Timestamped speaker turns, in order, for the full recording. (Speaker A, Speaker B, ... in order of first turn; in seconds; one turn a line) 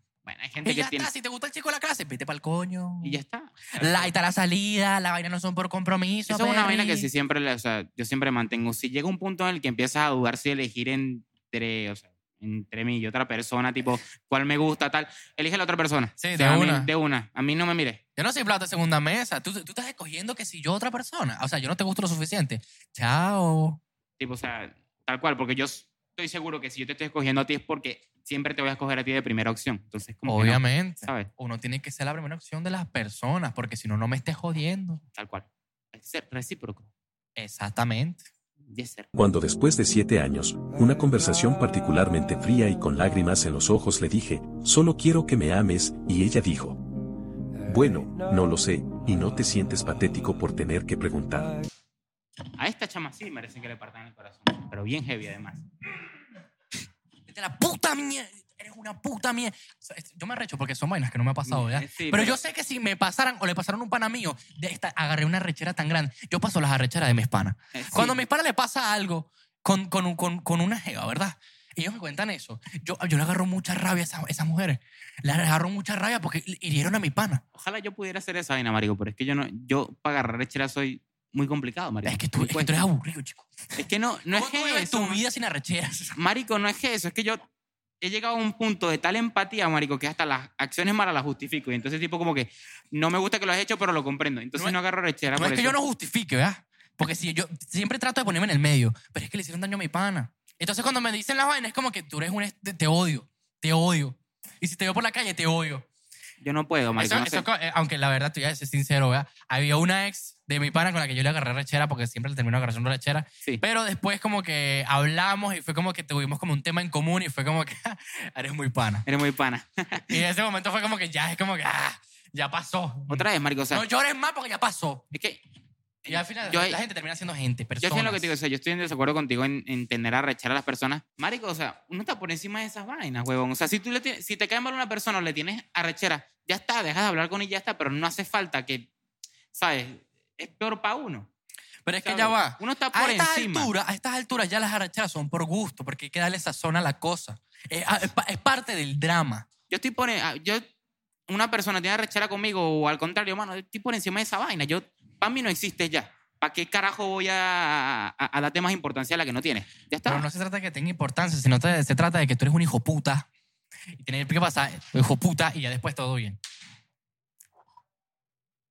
Speaker A: 0.2-1.1
Speaker B: 0.6-3.2
Speaker A: 3.0-4.1
Speaker B: 3.7-7.1
Speaker A: 6.3-18.0
Speaker B: 16.2-16.9
Speaker B: 18.2-23.8
Speaker A: 24.2-31.3
Speaker B: 30.3-35.0
Speaker A: 35.1-36.9
Speaker B: 37.4-38.2
Speaker A: 38.7-39.1
Speaker C: 39.1-46.8
Speaker C: 47.6-51.5
Speaker A: 52.6-55.6
Speaker B: 57.3-77.4
Speaker A: 61.5-62.4
Speaker A: 67.7-68.2
Speaker A: 77.5-82.7
Speaker B: 82.0-83.5
Speaker A: 83.8-85.2
Speaker B: 84.3-86.2
Speaker A: 86.2-87.4
Speaker A: 88.0-95.8
Speaker B: 95.3-105.8
Speaker A: 106.4-107.4
Speaker B: 107.0-119.0
Speaker A: 119.0-120.2
Speaker B: 120.1-125.0
Speaker A: 123.1-123.8
Speaker A: 125.1-125.4
Speaker A: 126.0-126.8
Speaker B: 126.1-128.3
Speaker A: 127.8-138.9
Speaker A: 139.5-141.3
Speaker B: 141.8-149.5
Speaker A: 142.0-143.7
Speaker A: 149.7-150.6
Speaker A: 151.3-160.3
Speaker B: 160.1-163.3
Speaker B: 163.9-166.4